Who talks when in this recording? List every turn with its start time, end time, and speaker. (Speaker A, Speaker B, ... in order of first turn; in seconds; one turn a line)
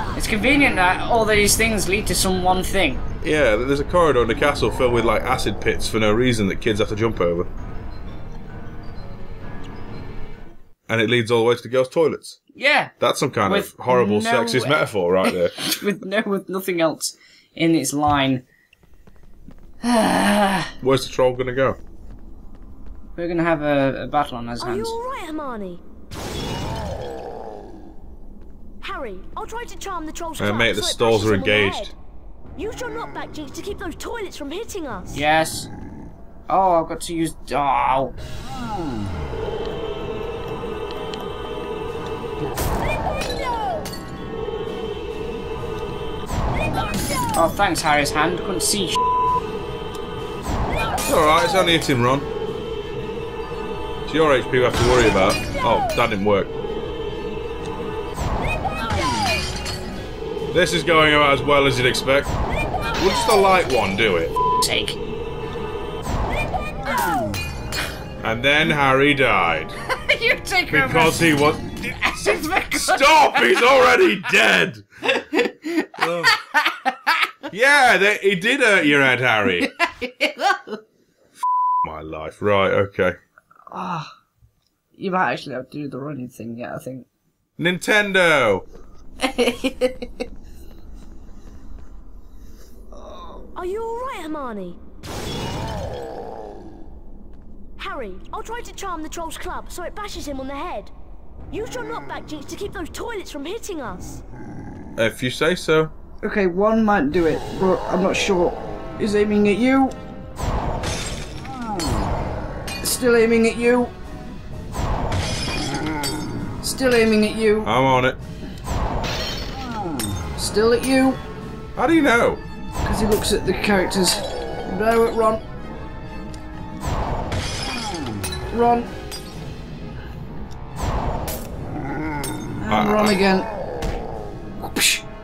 Speaker A: 0.1-3.0
Speaker B: 3.2-7.5
Speaker B: 10.9-12.4
Speaker A: 12.5-12.9
Speaker B: 13.0-15.7
Speaker A: 13.4-18.4
Speaker A: 19.8-20.7
Speaker B: 20.8-21.8
Speaker A: 23.2-24.9
Speaker C: 24.6-25.8
Speaker C: 28.8-31.9
Speaker B: 30.4-31.9
Speaker C: 32.5-35.2
Speaker A: 35.1-35.7
Speaker A: 36.5-38.1
Speaker A: 47.3-49.0
Speaker B: 51.0-52.3
Speaker B: 54.1-56.5
Speaker B: 60.5-62.3
Speaker B: 63.0-64.3
Speaker A: 64.6-65.0
Speaker B: 68.2-69.8
Speaker A: 69.9-73.7
Speaker B: 70.7-72.2
Speaker B: 72.7-74.8
Speaker A: 75.0-77.3
Speaker B: 76.0-76.3
Speaker B: 77.5-79.7
Speaker A: 79.6-80.8
Speaker B: 81.8-83.2
Speaker A: 83.7-84.1
Speaker A: 85.0-87.0
Speaker B: 87.6-88.7
Speaker A: 89.2-90.2
Speaker C: 93.5-94.8
Speaker C: 97.8-100.9
Speaker C: 101.5-104.2
Speaker B: 105.0-105.9
Speaker A: 106.2-110.0
Speaker A: 112.8-113.9
Speaker A: 116.6-117.7
Speaker B: 117.6-118.2
Speaker A: 120.4-121.2
Speaker B: 121.8-122.4
Speaker A: 122.8-125.4
Speaker A: 128.5-128.9
Speaker A: 132.6-133.5
Speaker B: 132.7-133.2
Speaker A: 134.6-135.0